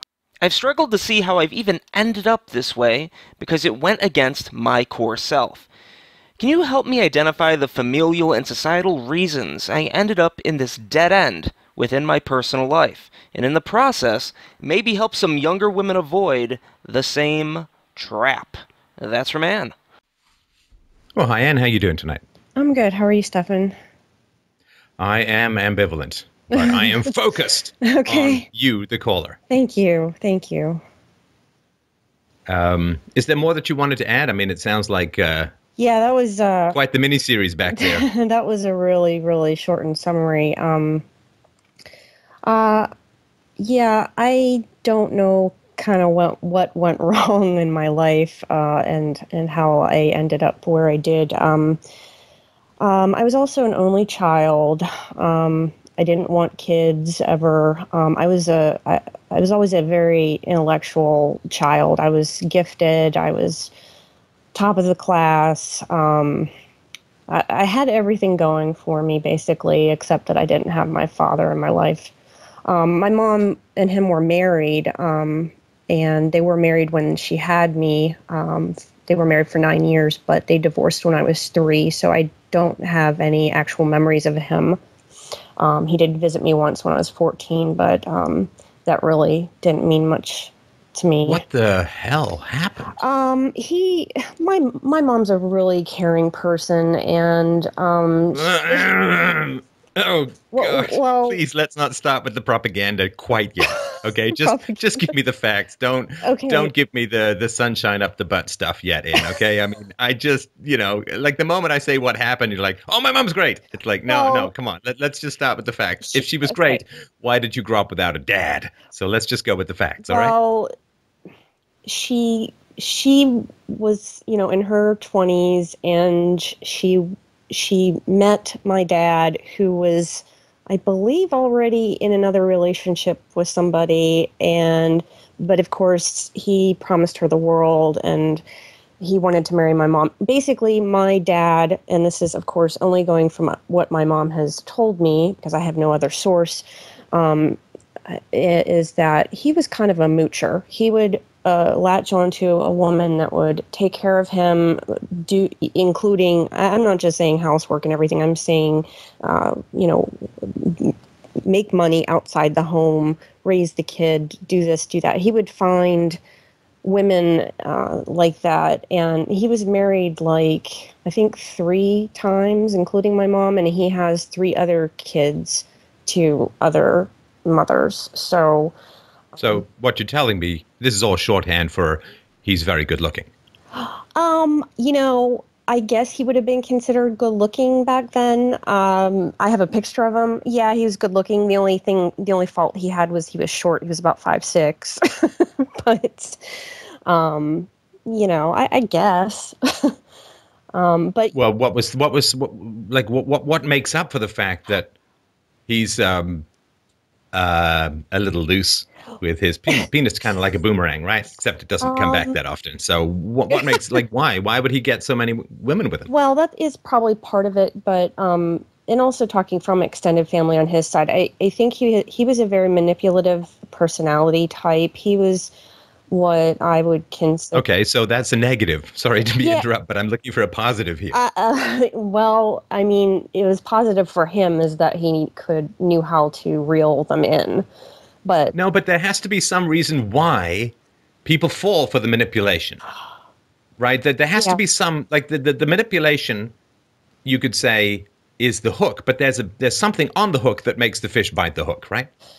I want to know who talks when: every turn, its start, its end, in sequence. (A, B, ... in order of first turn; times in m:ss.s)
0:00.4-0:05.7 A
0:06.4-0:19.7 A
0:21.1-0:22.2 B
0:22.6-0:23.8 C
0:25.0-0:29.4 B
0:26.5-0:27.0 C
0:27.8-0:28.4 C
0:29.5-0:30.8 C
0:32.5-0:35.5 B
0:35.8-0:36.8 C
0:36.7-0:38.1 B
0:37.7-0:41.0 C
0:42.4-0:42.9 C
0:43.6-0:51.8 C
0:52.8-1:03.7 C
1:04.5-1:06.5 C
1:07.3-1:12.1 C
1:12.7-1:24.8 C
1:25.6-1:31.4 C
1:31.2-1:33.0 B
1:33.0-1:38.8 C
1:38.3-2:00.3 B
1:40.5-1:41.4 C
1:43.7-1:45.1 C
1:46.2-1:46.7 C
1:54.1-1:54.5 C
1:56.1-1:56.8 C
2:00.0-2:00.7 C
2:01.8-2:18.4 C
2:19.0-2:46.2 C
2:46.8-2:58.7 C
2:59.3-2:59.6 C
2:59.4-3:03.3 B
3:03.7-3:20.0 C
3:20.7-3:21.3 C
3:21.3-3:24.9 B
3:25.7-3:26.4 B
3:27.3-3:36.1 B
3:31.8-3:32.3 C
3:36.1-3:45.5 C
3:46.1-3:47.6 C
3:47.5-3:51.2 B
3:49.3-3:49.6 C
3:51.1-3:57.6 C
3:58.2-3:58.5 C
3:58.5-4:00.7 B
4:01.2-4:02.8 B
4:03.8-4:06.5 B
4:07.2-4:12.1 B